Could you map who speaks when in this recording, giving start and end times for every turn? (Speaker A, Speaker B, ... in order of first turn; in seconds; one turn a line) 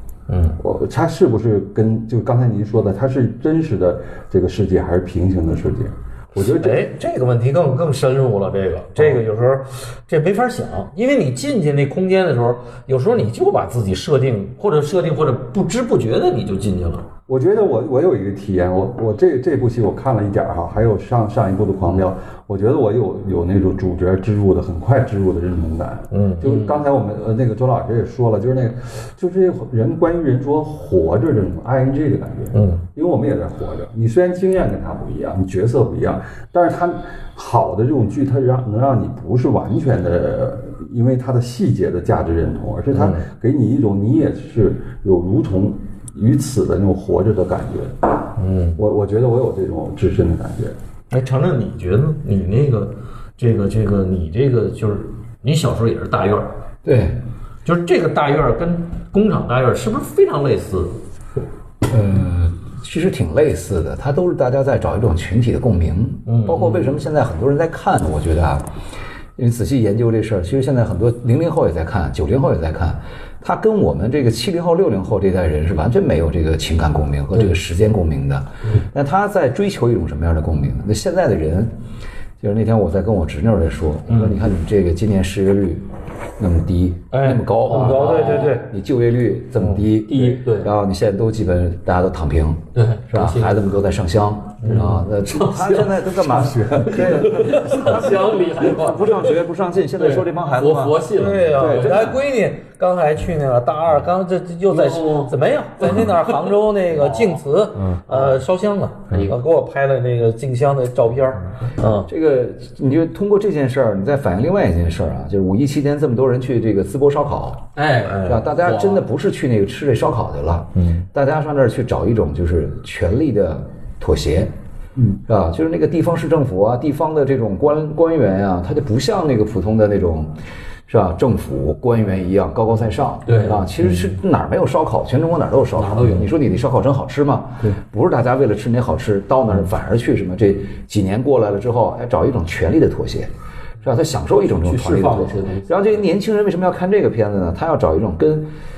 Speaker A: 0.3-0.6
Speaker B: 0.6-6.8
Speaker A: 6.4-17.1
Speaker B: 17.3-48.0
Speaker A: 26.1-26.6
Speaker C: 26.4-26.7
Speaker A: 32.5-32.9
Speaker A: 42.9-43.2
Speaker A: 48.4-48.8
Speaker B: 48.8-50.7
Speaker A: 51.1-56.5
Speaker D: 56.8-57.2
Speaker A: 57.6-61.0
Speaker D: 61.9-68.7
Speaker A: 66.2-67.0
Speaker D: 69.4-81.7
Speaker D: 82.4-85.8
Speaker A: 84.1-84.4
Speaker D: 86.4-101.0
Speaker A: 87.1-88.7
Speaker C: 87.7-88.5
Speaker C: 90.0-90.7
Speaker C: 92.7-93.6
Speaker A: 94.6-95.0
Speaker C: 94.7-102.1
Speaker B: 96.2-97.5
Speaker A: 101.1-112.1
Speaker D: 101.6-102.2
Speaker C: 104.7-106.5
Speaker C: 107.0-107.3
Speaker D: 112.1-117.7
Speaker C: 117.7-119.0
Speaker A: 118.0-118.4
Speaker D: 118.2-124.5
Speaker A: 120.8-121.0
Speaker D: 125.2-130.3
Speaker D: 130.9-143.3
Speaker C: 133.2-133.7
Speaker C: 135.8-136.3
Speaker D: 143.8-148.5
Speaker C: 144.6-146.0